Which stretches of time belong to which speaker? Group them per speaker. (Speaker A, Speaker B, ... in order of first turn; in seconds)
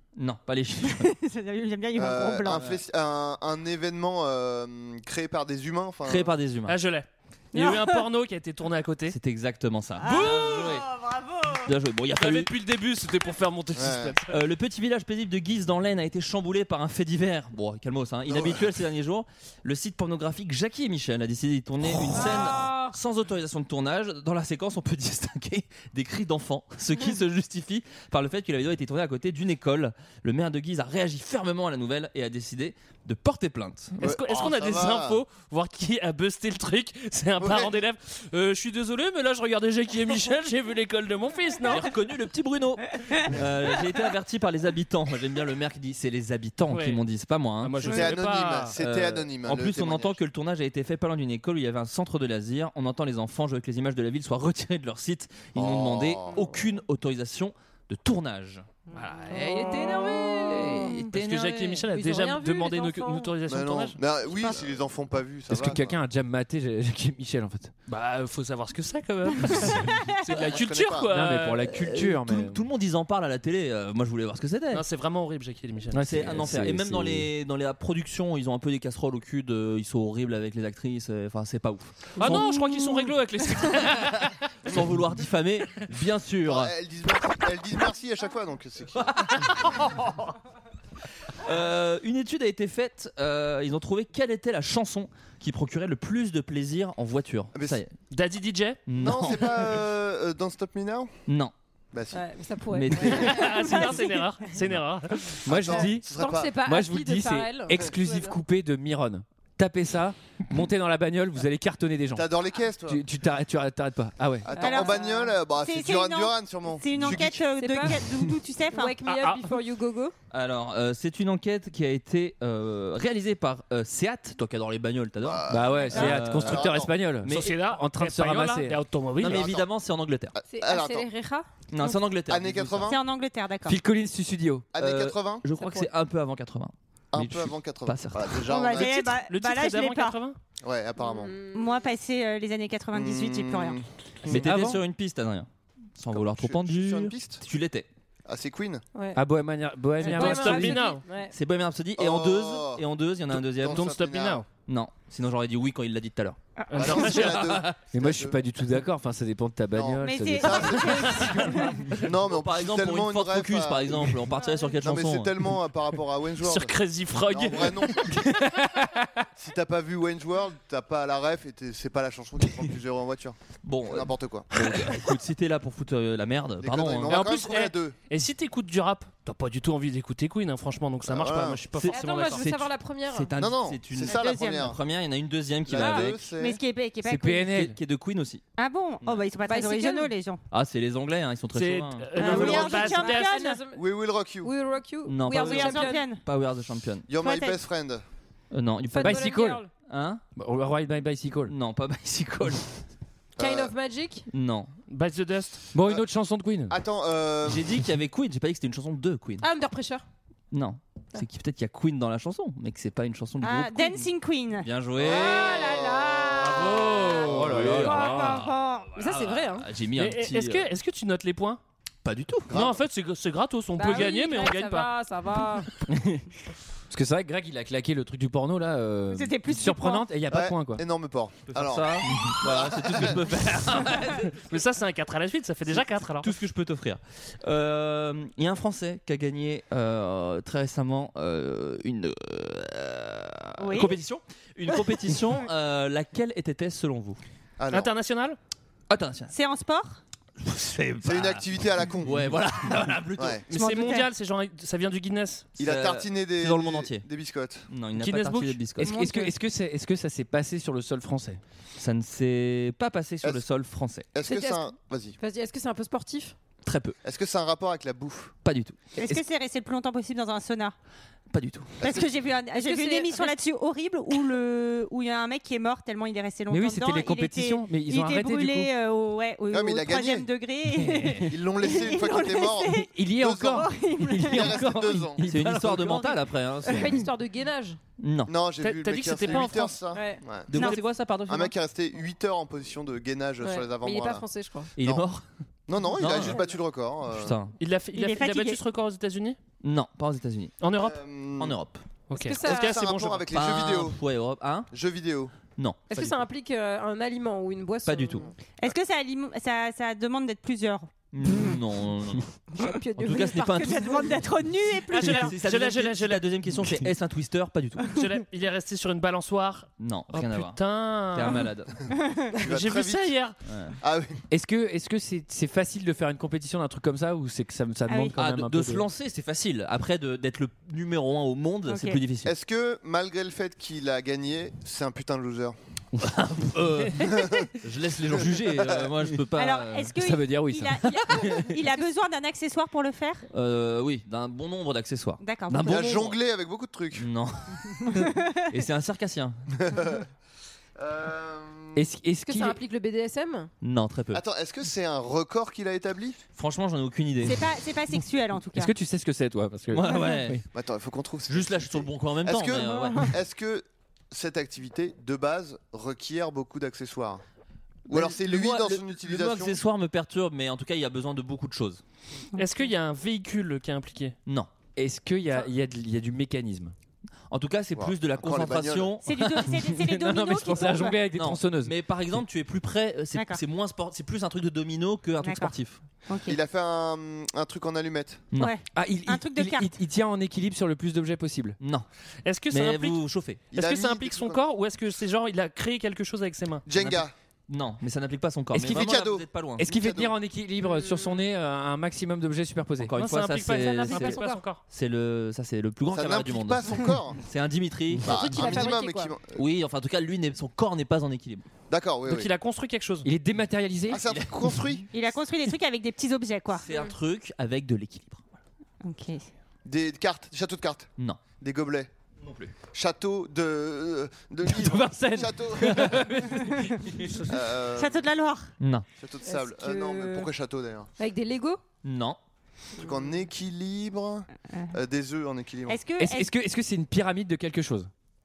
Speaker A: 0.2-1.1, 2.5-2.8, 6.0-6.8, 9.1-10.9, 11.6-12.5, 14.3-34.0, 41.6-48.0, 48.7-61.8, 71.6-74.8, 76.0-82.8, 83.8-86.7, 89.0-89.3, 91.4-97.9, 98.9-99.8, 101.3-101.5, 102.7-103.9, 120.3-127.7, 129.2-130.3, 131.7-133.0, 134.8-138.4, 144.2-147.9, 151.3-153.9, 154.7-156.4, 156.9-157.8, 162.3-165.6, 173.6-177.3, 181.7-186.2, 187.5-188.4, 190.5-192.9, 195.1-197.1, 198.5-200.2, 201.5-202.7, 204.3-204.7, 207.4-209.4, 210.5-214.1, 214.6-215.7, 216.4-220.7, 222.0-222.5, 231.5-234.4, 235.7-247.2, 248.9-249.3, 250.4-253.4, 255.6-257.1, 257.7-258.9, 261.8-264.1, 266.6-267.0, 268.4-268.8, 271.3-271.8, 285.2-287.0, 288.0-288.3, 290.5-291.5, 294.8-295.2, 296.0-296.4, 297.1-297.5, 299.6-300.5, 301.4-301.8, 303.3-304.7, 305.6-306.2, 307.9-308.2, 311.1-312.3, 313.0-314.2, 315.0-318.0, 319.8-320.6, 321.1-321.8, 323.4-323.8, 328.2-332.3, 336.0-339.9, 343.3-346.2, 346.9-349.4, 353.6-354.2, 356.4-357.4, 359.7-360.4, 361.3-363.1, 367.9-371.8, 377.3-379.9, 381.1-385.8, 391.6-391.9, 392.5-393.4, 396.7-399.6, 402.8-408.7, 409.4-411.4, 414.0-414.8, 416.5-418.4, 422.2-422.5, 428.6-428.9, 431.8-432.2
Speaker B: 0.8-2.6, 7.5-8.0, 10.0-11.7, 114.6-119.1, 132.8-133.8, 138.5-140.2, 141.5-143.8, 156.6-156.9, 160.0-161.7, 184.1-184.7, 186.3-187.5, 188.6-190.4, 192.2-193.6, 195.4-196.2, 197.2-197.6, 213.4-214.7, 218.0-218.9, 229.1-230.1, 243.6-243.9, 249.3-250.0, 253.5-254.1, 258.8-259.3, 269.0-270.7, 271.8-282.9, 283.5-284.6, 290.5-290.8, 297.9-298.6, 308.6-310.9, 313.4-315.3, 327.9-328.1, 331.7-332.0, 339.4-343.2, 345.2-345.8, 347.9-348.3, 357.2-358.7, 379.0-381.0, 383.1-383.4, 385.2-385.5, 386.1-386.4, 388.4-389.7, 414.9-416.7, 418.8-419.3, 427.8-428.5, 434.4-434.7, 435.7-436.3
Speaker C: 1.9-6.3, 13.7-14.2, 18.3-18.7, 34.0-35.2, 37.4-37.8, 47.9-50.2, 55.5-56.5, 63.5-66.0, 70.3-71.1, 86.5-89.4, 97.5-97.8, 99.0-101.1, 101.9-102.2, 102.9-103.9, 105.5-106.5, 112.1-113.0, 114.4-117.5, 125.2-126.9, 129.2-129.7, 130.3-131.1, 132.3-133.0, 134.7-135.4, 137.1-139.0, 140.6-141.3, 142.9-144.5, 146.1-147.4, 148.2-148.8, 152.0-154.4, 156.7-158.4, 159.7-161.4, 161.9-164.2, 164.8-168.3, 169.3-174.5, 176.6-177.9, 181.0-181.7, 183.4-184.8, 185.7-186.6, 193.7-194.5, 197.1-198.0, 203.4-203.7, 206.7-207.7, 215.1-216.4, 217.3-217.7, 222.5-222.8, 230.3-233.2, 247.6-247.9, 251.0-252.4, 253.2-253.4, 255.6-257.7, 264.1-265.1, 267.0-268.3, 279.5-280.3, 281.3-283.7, 284.2-285.2, 288.2-290.7, 291.2-294.2, 294.8-295.0, 295.7-297.4, 300.7-301.6, 302.4-304.0, 304.7-305.3, 322.4-323.1, 323.8-324.1, 332.2-335.6, 337.0-337.5, 338.1-338.9, 345.6-347.1, 349.6-350.1, 350.8-351.8, 354.1-356.2, 360.5-367.2, 367.9-369.6, 377.8-378.9, 386.2-388.2, 393.5-394.4, 396.6-397.1, 398.6-400.1, 405.8-407.2, 408.0-409.4, 411.7-412.3, 413.9-414.9, 419.6-421.9, 422.7-426.1, 427.2-428.1, 429.0-430.9, 432.8-435.8
Speaker D: 6.7-9.2, 10.1-10.8, 12.1-14.3, 34.0-41.9, 46.7-47.0, 47.6-48.8, 61.1-64.0, 67.9-71.7, 74.7-76.0, 82.2-84.3, 98.1-98.8, 103.2-105.4, 119.1-119.5, 127.3-129.5, 138.7-140.4, 150.0-151.0, 153.7-154.4, 156.7-157.6, 161.2-161.6, 166.4-168.1, 177.1-182.5, 191.5-193.3, 204.9-205.7, 219.9-221.6, 222.5-224.9, 233.7-236.3, 247.7-248.4, 253.5-255.5, 258.1-258.5, 288.6-289.8, 297.6-299.4, 300.6-301.0, 302.1-303.3, 314.9-316.3, 317.9-321.5, 322.4-323.4, 372.3-374.1, 392.2-393.0, 393.5-396.6, 402.9-404.6, 412.1-413.1
Speaker E: 22.1-22.9, 59.3-61.0, 61.6-63.3, 102.1-104.0, 105.8-108.3, 114.6-115.3, 117.5-118.0, 118.7-120.1, 130.5-131.5, 135.6-135.9, 141.0-141.9, 148.9-149.2, 150.0-151.3, 181.9-183.3, 185.7-186.1, 189.5-190.1, 192.2-193.8, 194.4-196.0, 198.9-199.7, 203.4-204.2, 209.4-210.0, 215.0-217.2, 217.8-219.7, 223.8-225.7, 264.2-266.4, 272.6-273.3, 286.6-287.8, 289.9-290.2, 293.4-294.7, 296.1-296.4, 302.1-302.8, 305.9-308.3, 312.6-314.0, 352.2-353.5, 400.7-401.1, 403.5-404.4, 408.0-409.1, 429.2-430.3, 431.0-431.6
Speaker F: 65.5-67.7, 71.1-72.6, 75.9-77.3, 105.5-112.3, 112.8-114.5, 125.5-128.8, 133.7-134.7, 144.3-144.8, 149.1-150.8, 157.9-161.7, 168.1-169.2, 187.0-187.8, 199.0-199.6, 200.3-201.5, 205.7-206.8, 217.1-218.4, 226.9-230.8, 258.8-261.4, 276.5-278.7, 280.8-281.3, 282.8-286.2, 324.3-328.9, 340.0-341.3, 351.7-352.6, 358.5-360.4, 374.8-376.7, 379.7-381.7, 388.7-391.6, 398.5-399.0, 399.6-402.9, 413.0-414.0, 424.4-427.2, 436.0-437.9